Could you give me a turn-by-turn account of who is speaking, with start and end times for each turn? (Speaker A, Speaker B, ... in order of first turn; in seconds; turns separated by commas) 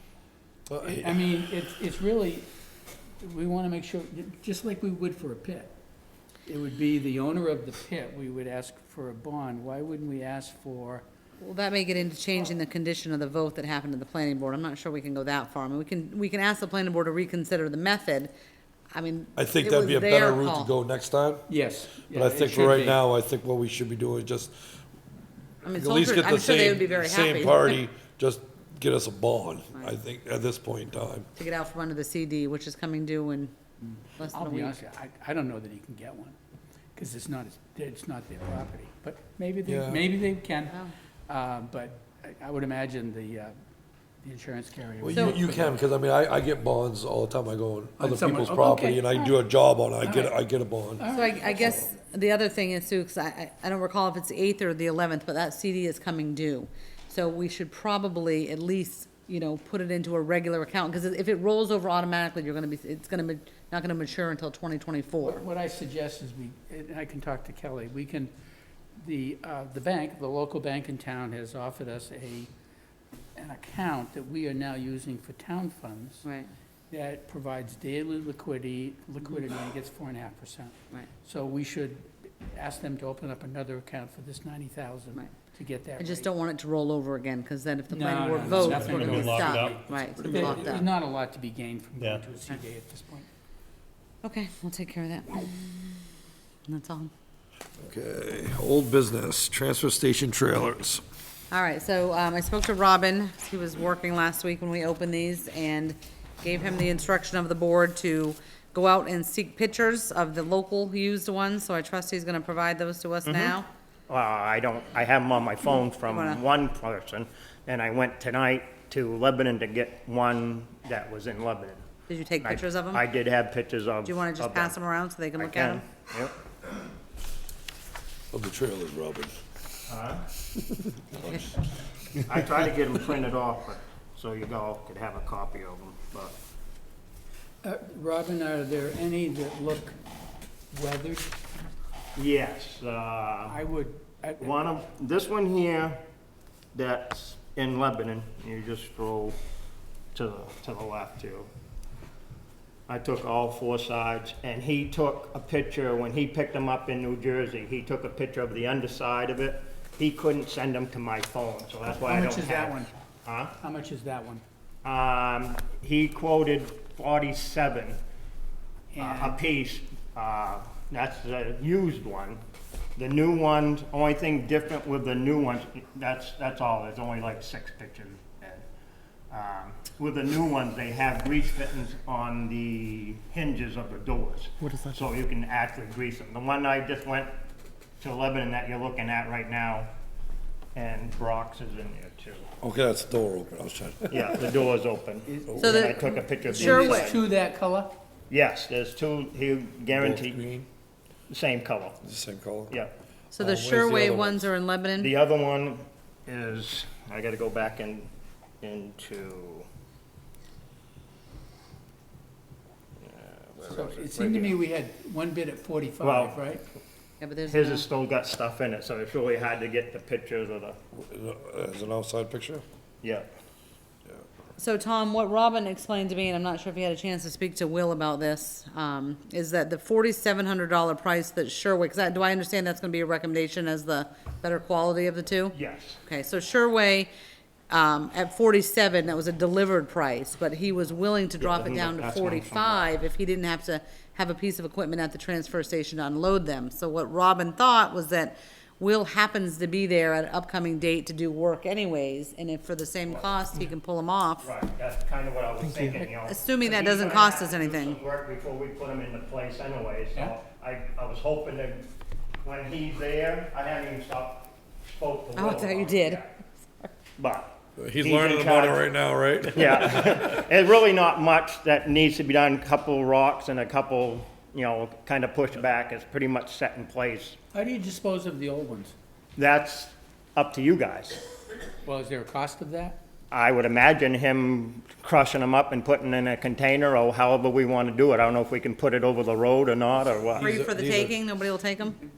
Speaker A: 0.7-1.4, Speaker B: 0.8-2.5, Speaker B: 3.2-5.7, Speaker B: 6.5-11.0, Speaker C: 11.4-18.3, Speaker C: 18.9-20.7, Speaker A: 19.4-21.5, Speaker B: 21.5-23.0, Speaker A: 22.1-24.6, Speaker A: 25.6-31.3, Speaker C: 25.6-27.8, Speaker C: 31.4-33.5, Speaker B: 33.8-36.4, Speaker C: 34.2-34.8, Speaker B: 37.0-43.5, Speaker A: 39.7-40.1, Speaker B: 44.2-45.8, Speaker A: 45.0-51.1, Speaker B: 48.0-49.4, Speaker B: 50.0-50.3, Speaker B: 51.0-51.9, Speaker C: 51.1-65.5, Speaker B: 65.2-68.3, Speaker B: 69.0-72.5, Speaker B: 73.4-76.3, Speaker C: 76.2-76.5, Speaker B: 76.9-86.3, Speaker C: 86.0-90.9, Speaker B: 87.9-93.3, Speaker D: 88.4-89.8, Speaker A: 90.2-90.6, Speaker D: 92.0-92.2, Speaker C: 94.2-96.0, Speaker C: 96.7-97.1, Speaker A: 97.8-101.0, Speaker C: 101.5-113.7, Speaker D: 113.2-113.5, Speaker D: 114.1-121.8, Speaker C: 116.0-116.4, Speaker C: 122.1-123.0, Speaker D: 122.4-124.8, Speaker C: 124.0-125.8, Speaker D: 125.4-126.3, Speaker A: 128.3-129.6, Speaker D: 129.9-130.3, Speaker A: 131.1-131.6, Speaker D: 132.3-136.4, Speaker B: 137.6-140.0, Speaker B: 140.7-141.3, Speaker D: 142.2-143.6, Speaker B: 143.5-144.7, Speaker D: 144.4-146.0, Speaker D: 146.7-149.3, Speaker D: 150.1-151.5, Speaker D: 152.9-163.5, Speaker B: 161.9-162.9, Speaker B: 163.6-164.4, Speaker D: 164.8-168.0, Speaker B: 168.9-169.4, Speaker D: 169.0-172.4, Speaker D: 173.0-178.6, Speaker D: 179.3-187.3, Speaker D: 188.0-189.9, Speaker D: 190.8-192.5, Speaker A: 192.6-194.4, Speaker D: 194.1-197.2, Speaker B: 195.3-197.9, Speaker C: 195.6-197.1, Speaker D: 198.3-200.4, Speaker A: 199.9-200.7, Speaker D: 201.3-202.0, Speaker A: 202.0-202.8, Speaker C: 203.3-205.1, Speaker A: 203.4-204.5, Speaker D: 205.0-208.1, Speaker D: 208.6-209.7, Speaker D: 213.0-214.5, Speaker B: 213.7-216.6, Speaker D: 216.0-216.4, Speaker C: 217.2-217.9, Speaker D: 217.5-220.8, Speaker A: 221.0-222.6, Speaker D: 223.0-223.3, Speaker C: 224.6-237.1, Speaker D: 235.5-236.0, Speaker C: 237.7-254.4, Speaker D: 241.4-242.9, Speaker D: 253.1-253.3, Speaker D: 254.4-261.9, Speaker C: 256.1-258.0, Speaker D: 262.4-266.3, Speaker C: 265.4-266.9, Speaker D: 267.2-268.9, Speaker A: 267.8-270.4, Speaker D: 269.5-277.4, Speaker B: 277.5-278.9, Speaker D: 279.4-281.2, Speaker B: 281.8-283.0, Speaker D: 283.3-290.5, Speaker A: 290.4-291.2, Speaker C: 290.4-292.0